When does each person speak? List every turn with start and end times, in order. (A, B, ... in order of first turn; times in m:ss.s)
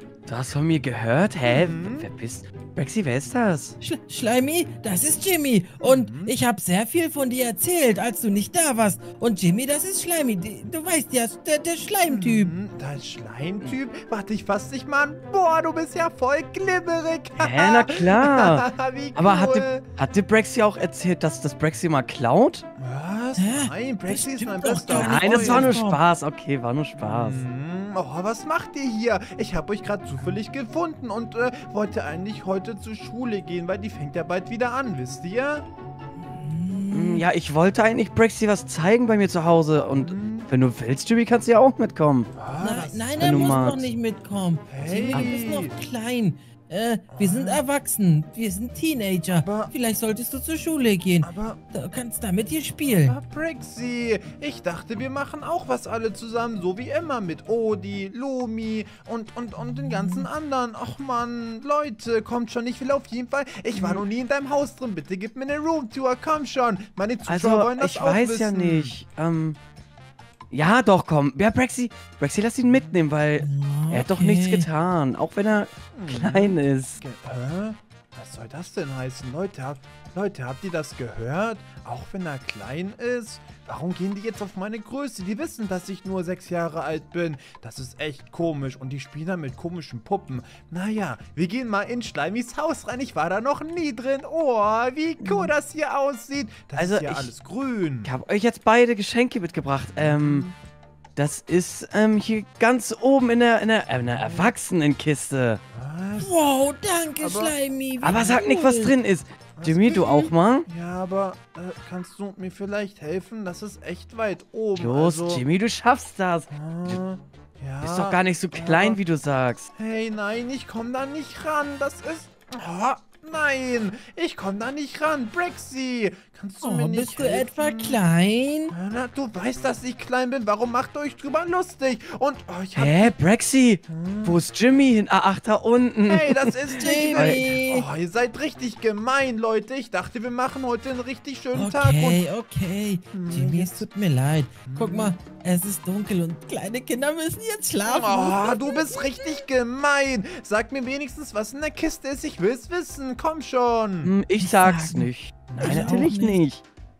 0:00.3-0:03.8 A
0:01.5-0:02.1 B
0:03.8-0:12.5 C
0:05.8-0:06.3 B
0:12.0-0:19.8 B
0:17.4-0:22.6 A
0:22.8-0:25.8 B
0:23.4-0:26.0 C
0:24.9-0:27.4 A
0:27.0-0:35.6 B
0:36.2-0:37.2 C
0:36.9-0:42.3 A
0:40.0-0:40.5 B
0:42.3-0:43.2 B
0:42.6-0:53.2 C
0:43.2-0:43.9 A
0:44.7-0:45.7 B
0:47.1-0:47.6 B
0:49.4-0:49.7 B
0:51.2-0:51.6 B
0:53.0-1:08.9 B
0:59.6-1:00.3 C
1:03.8-1:04.0 A
1:07.3-1:09.6 A
1:10.5-1:17.0 A
1:12.6-1:13.0 B
1:13.4-1:14.6 C
1:15.9-1:38.1 B
1:35.2-1:35.5 C
1:36.7-1:37.3 A
1:38.0-1:40.5 A
1:39.9-1:40.5 B
1:41.2-1:45.6 A
1:44.1-1:44.5 B
1:45.7-1:46.4 B
1:46.2-1:48.9 C
1:47.2-1:47.6 B
1:48.0-1:50.6 A
1:49.6-1:55.4 B
1:54.7-1:57.0 A
1:56.5-1:59.0 B
1:57.8-1:59.7 A
1:59.8-2:08.0 B
2:06.6-2:08.7 C
2:08.7-2:13.1 B
2:12.8-2:17.4 A
2:13.9-2:14.4 B
2:16.1-2:22.2 B
2:16.8-2:17.8 C
2:21.5-2:29.2 C
2:23.1-2:23.9 B
2:24.6-2:25.2 B
2:27.9-2:34.1 B
2:34.0-2:36.6 A
2:34.4-2:36.4 C
2:35.5-2:36.1 B